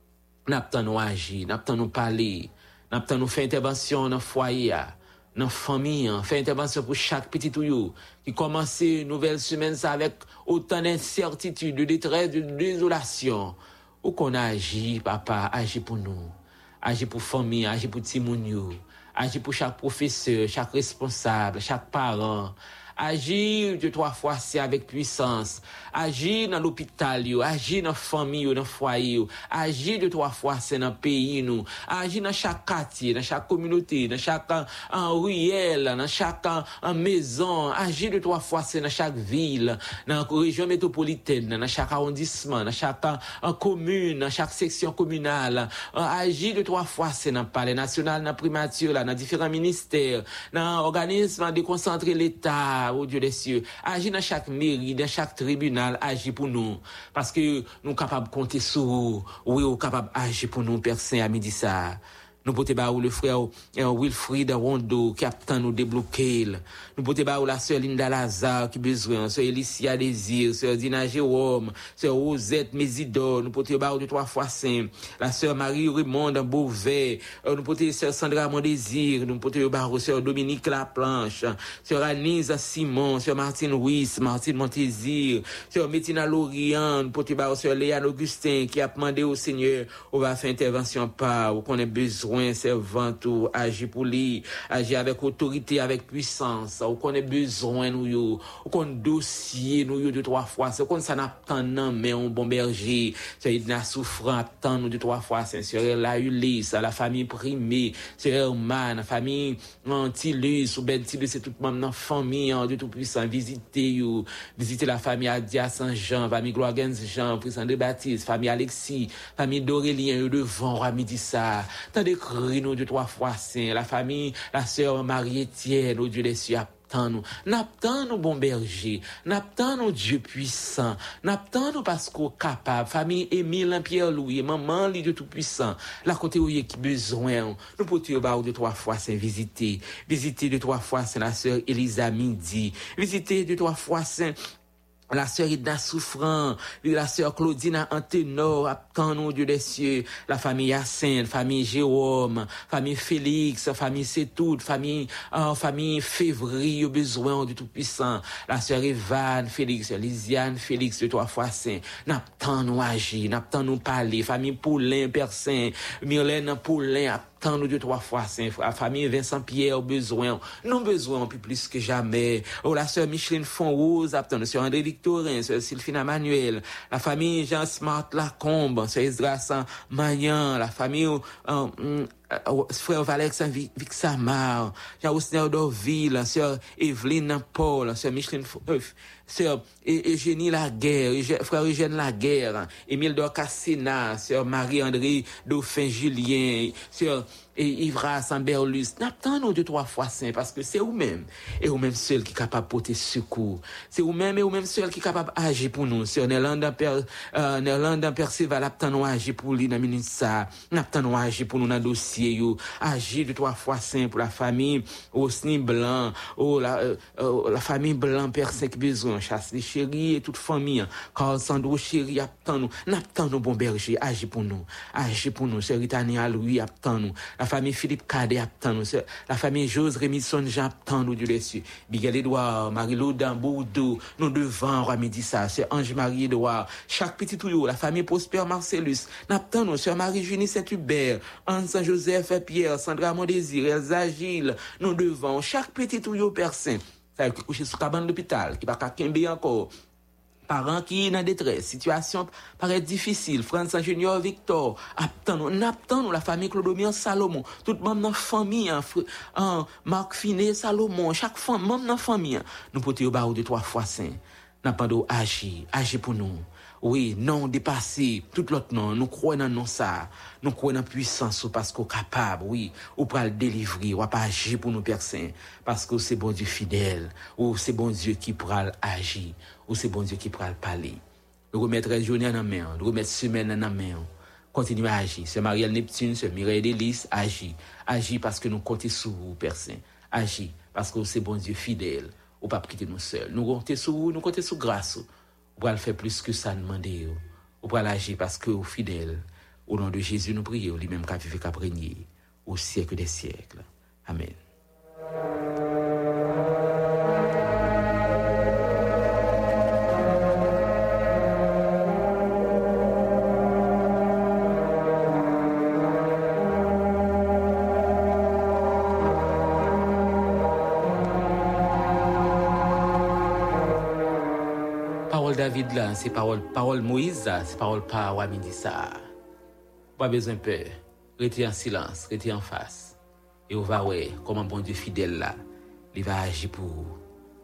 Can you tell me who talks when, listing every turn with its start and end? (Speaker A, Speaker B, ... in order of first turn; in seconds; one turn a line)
Speaker A: 0.5-144.3
Speaker A: 145.1-249.7
Speaker A: 250.5-281.0
Speaker A: 281.5-304.4
Speaker A: 325.1-329.1
Speaker A: 330.0-333.0
Speaker A: 333.5-335.4
Speaker A: 335.9-337.0